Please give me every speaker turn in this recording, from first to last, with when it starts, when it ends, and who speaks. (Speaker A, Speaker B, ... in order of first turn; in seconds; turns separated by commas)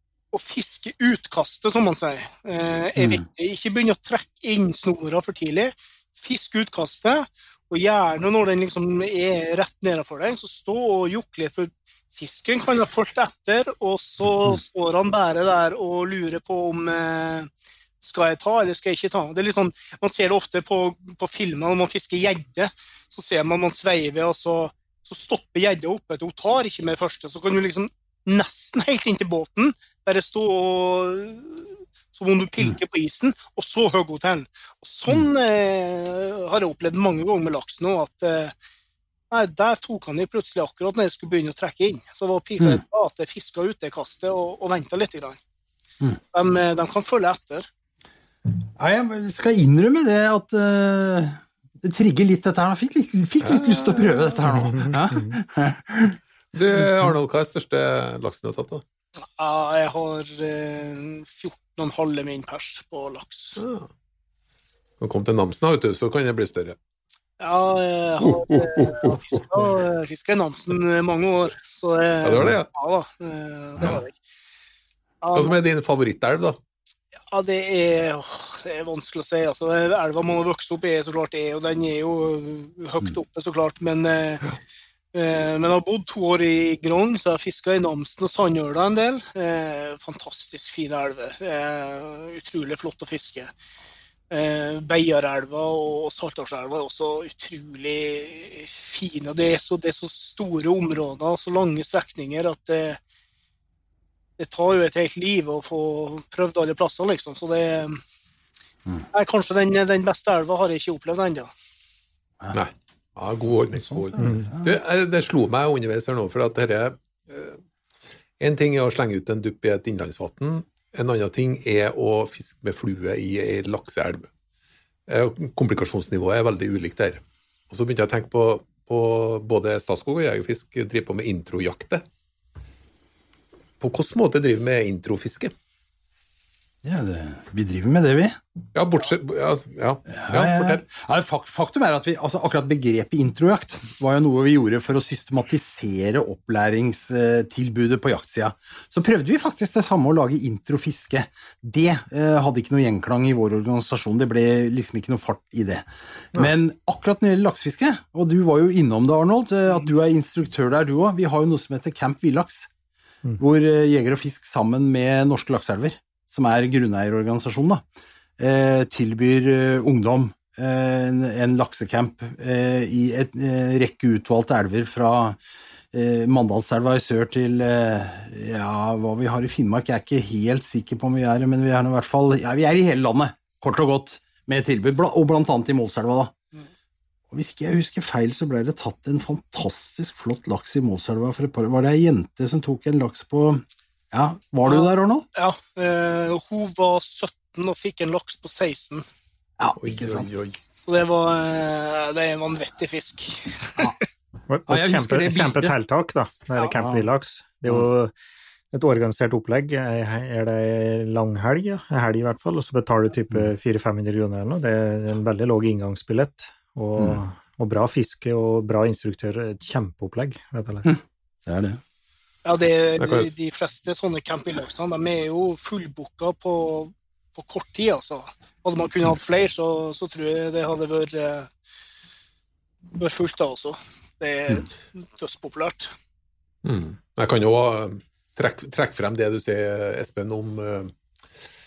Speaker A: 0.3-17.5, Speaker B: 3.0-3.2, Speaker A: 18.0-38.5, Speaker A: 39.3-45.4, Speaker A: 46.3-47.7, Speaker B: 48.8-56.2, Speaker C: 53.4-54.4, Speaker C: 56.5-58.8, Speaker A: 59.4-63.6, Speaker C: 63.6-63.9, Speaker C: 65.0-66.8, Speaker A: 67.4-74.2, Speaker C: 68.2-69.3, Speaker C: 72.2-72.7, Speaker A: 75.2-75.6, Speaker C: 75.3-76.6, Speaker A: 77.3-84.4, Speaker A: 85.1-93.5, Speaker A: 94.3-103.0, Speaker A: 104.4-108.0, Speaker A: 109.1-111.5, Speaker C: 112.5-117.6, Speaker B: 113.8-114.8, Speaker C: 118.4-124.3, Speaker C: 125.1-132.0, Speaker C: 133.8-135.5, Speaker B: 136.8-138.4, Speaker C: 138.8-140.8, Speaker B: 140.2-162.7, Speaker B: 163.4-167.8, Speaker B: 168.4-175.4, Speaker B: 175.9-186.3, Speaker B: 187.3-195.3, Speaker A: 194.7-199.1, Speaker B: 199.6-200.3, Speaker C: 199.8-200.6, Speaker A: 200.9-203.9, Speaker D: 204.5-208.1, Speaker B: 204.7-205.8, Speaker B: 206.7-207.1, Speaker D: 208.7-220.9, Speaker B: 220.8-221.8, Speaker A: 222.4-231.5, Speaker C: 223.0-223.3, Speaker A: 233.0-235.9, Speaker C: 236.6-240.9